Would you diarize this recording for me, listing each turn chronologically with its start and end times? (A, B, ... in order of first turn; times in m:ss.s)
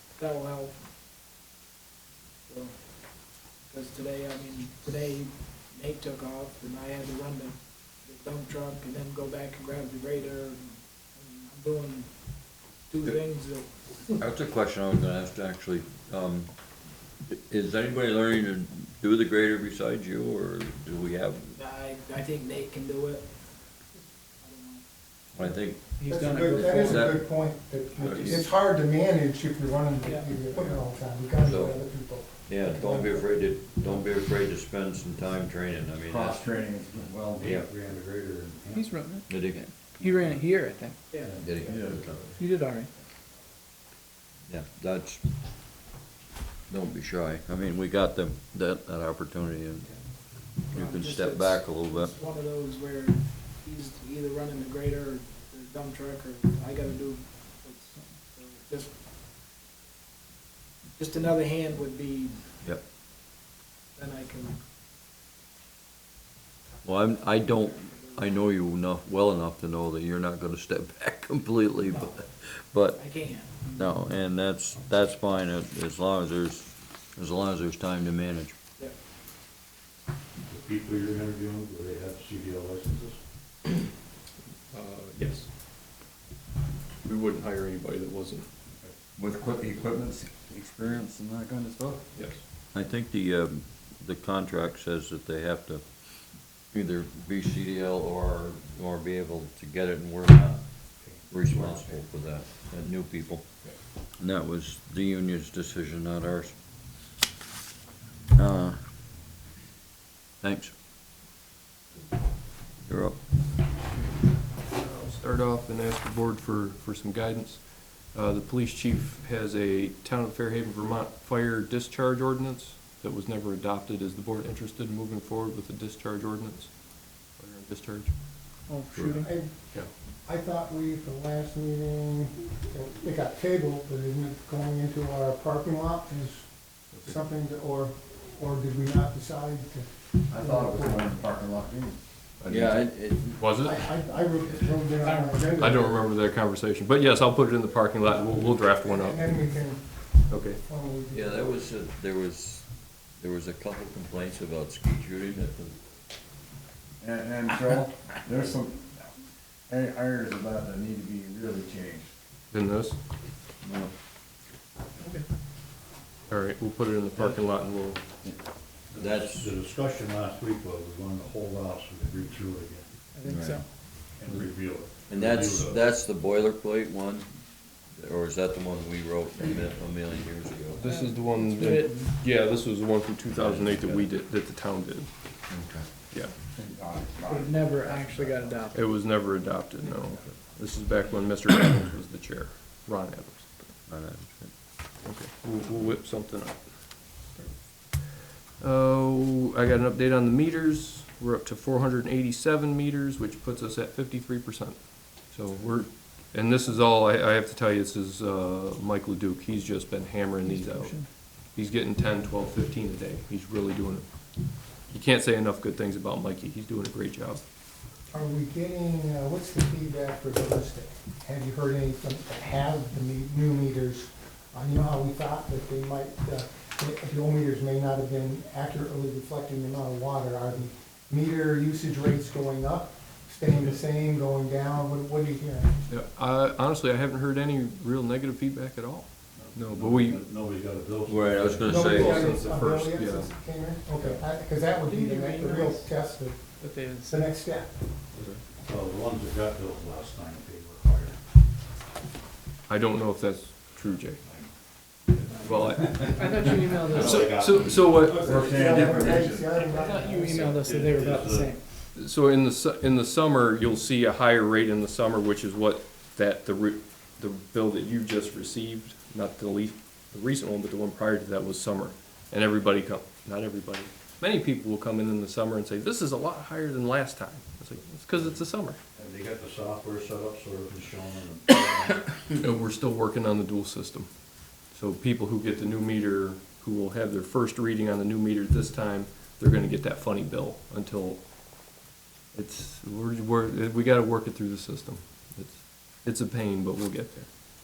0:00.2-0:00.7 A
0:02.5-0:02.8 A
0:03.7-0:12.1 A
0:12.9-0:14.2 A
0:14.2-0:16.5 B
0:17.3-0:21.6 B
0:21.6-0:23.4 A
0:23.9-0:24.8 A
0:25.3-0:25.9 B
0:26.0-0:27.0 A
0:26.0-0:27.0 C
0:26.1-0:33.2 D
0:26.7-0:27.3 B
0:28.0-0:28.4 E
0:28.0-0:28.5 B
0:30.0-0:30.3 A
0:31.4-0:31.8 B
0:32.4-0:36.5 B
0:35.9-0:37.4 F
0:37.4-0:39.0 G
0:37.4-0:37.7 B
0:38.7-0:39.3 C
0:39.2-0:39.7 B
0:39.9-0:40.4 G
0:40.0-0:41.0 C
0:40.2-0:41.3 A
0:41.1-0:42.1 G
0:41.4-0:42.3 B
0:41.7-0:42.3 F
0:42.4-0:42.9 A
0:42.4-0:42.9 C
0:44.5-0:45.3 B
0:46.7-0:49.9 B
0:50.6-0:52.2 B
0:50.7-0:59.0 A
1:01.0-1:02.4 A
1:03.9-1:04.6 A
1:06.8-1:13.0 B
1:07.8-1:08.2 A
1:11.8-1:12.1 A
1:12.9-1:13.8 A
1:13.8-1:18.6 B
1:20.5-1:23.2 G
1:24.7-1:25.5 E
1:27.0-1:28.5 E
1:29.1-1:32.0 F
1:32.1-1:32.4 E
1:32.7-1:35.8 B
1:36.7-1:43.5 B
1:44.2-1:46.5 B
1:48.3-1:48.8 B
1:50.4-1:50.7 B
1:52.8-1:53.2 B
1:54.7-2:06.7 E
2:07.2-2:08.1 E
2:08.7-2:09.2 A
2:08.8-2:09.2 C
2:08.9-2:09.9 E
2:09.1-2:21.1 D
2:20.3-2:22.7 F
2:22.4-2:23.9 E
2:22.5-2:23.4 B
2:23.6-2:26.0 D
2:25.0-2:25.3 C
2:25.6-2:29.2 E
2:28.3-2:31.6 D
2:30.3-2:30.6 E
2:31.1-2:35.8 B
2:37.0-2:38.9 F
2:39.7-2:42.1 F
2:42.5-2:43.0 E
2:43.6-2:43.9 B
2:46.3-2:48.0 E
2:48.9-2:53.1 G
2:48.9-2:49.5 B
2:53.2-2:53.6 A
2:53.2-2:53.6 C
2:53.2-2:53.6 B
2:54.0-2:55.8 G
2:55.1-2:57.3 B
2:57.9-3:00.8 B
3:00.8-3:05.1 E
3:00.8-3:01.9 A
3:01.6-3:01.9 C
3:03.3-3:04.0 B
3:05.5-3:05.8 B
3:06.5-3:08.6 F
3:07.2-3:08.9 A
3:08.7-3:13.6 E
3:13.9-3:14.5 B
3:15.0-3:17.6 E
3:18.6-3:31.0 E
3:30.5-3:31.0 C
3:31.5-3:34.0 E
3:34.9-3:37.4 E
3:38.1-3:55.7 D
3:55.9-4:00.2 E
3:59.4-4:02.3 G
4:01.1-4:02.2 B
4:01.6-4:07.8 D
4:01.8-4:03.3 E
4:04.9-4:05.8 C
4:06.6-4:07.2 C
4:08.1-4:08.4 E
4:08.6-4:11.2 G
4:12.7-4:14.2 E
4:14.2-4:14.5 G
4:15.1-4:18.6 G
4:15.4-4:19.2 E
4:16.2-4:17.2 C
4:16.2-4:17.0 A
4:18.0-4:20.5 D
4:18.2-4:19.6 F
4:19.6-4:21.6 A
4:20.4-4:21.5 G
4:22.0-4:38.8 E
4:39.0-4:42.1 G
4:42.4-4:44.1 E
4:44.7-4:51.2 E
4:52.3-4:57.3 E